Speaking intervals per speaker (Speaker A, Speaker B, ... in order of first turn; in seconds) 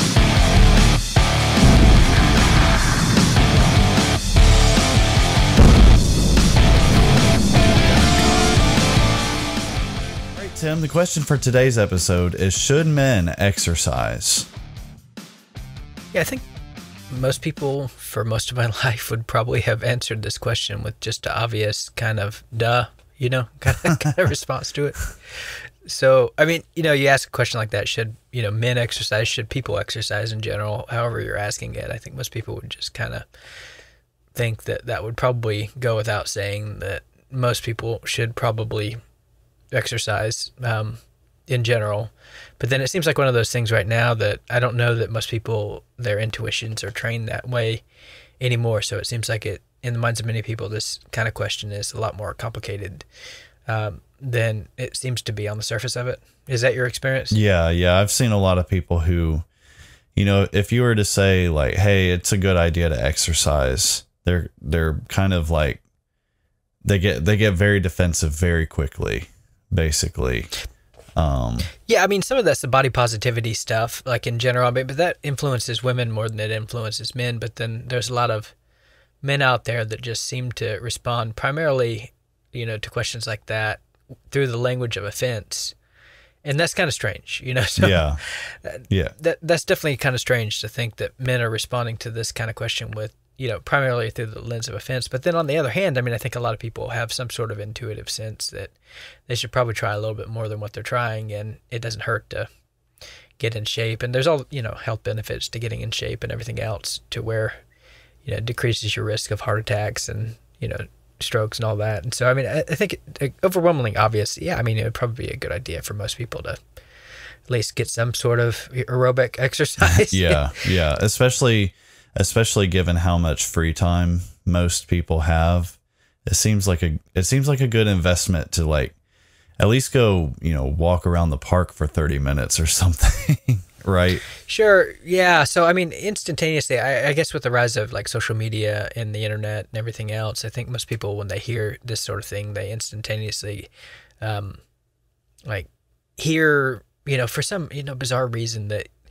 Speaker A: 10.3-14.5, 57.3-59.5, 60.1-65.8, 66.8-70.5, 71.2-71.7, 87.8-88.2, 88.9-89.1, 119.8-128.9, 129.6-134.2
Speaker B: 16.1-16.4, 17.1-33.3, 34.3-39.0, 39.7-47.8, 48.4-53.0, 53.7-57.4, 71.8-78.5, 79.2-85.7, 86.4-98.7, 99.3-102.5, 103.4-107.6, 108.2-116.6, 117.5-120.5, 134.4-143.7, 144.2-144.6, 145.4-148.9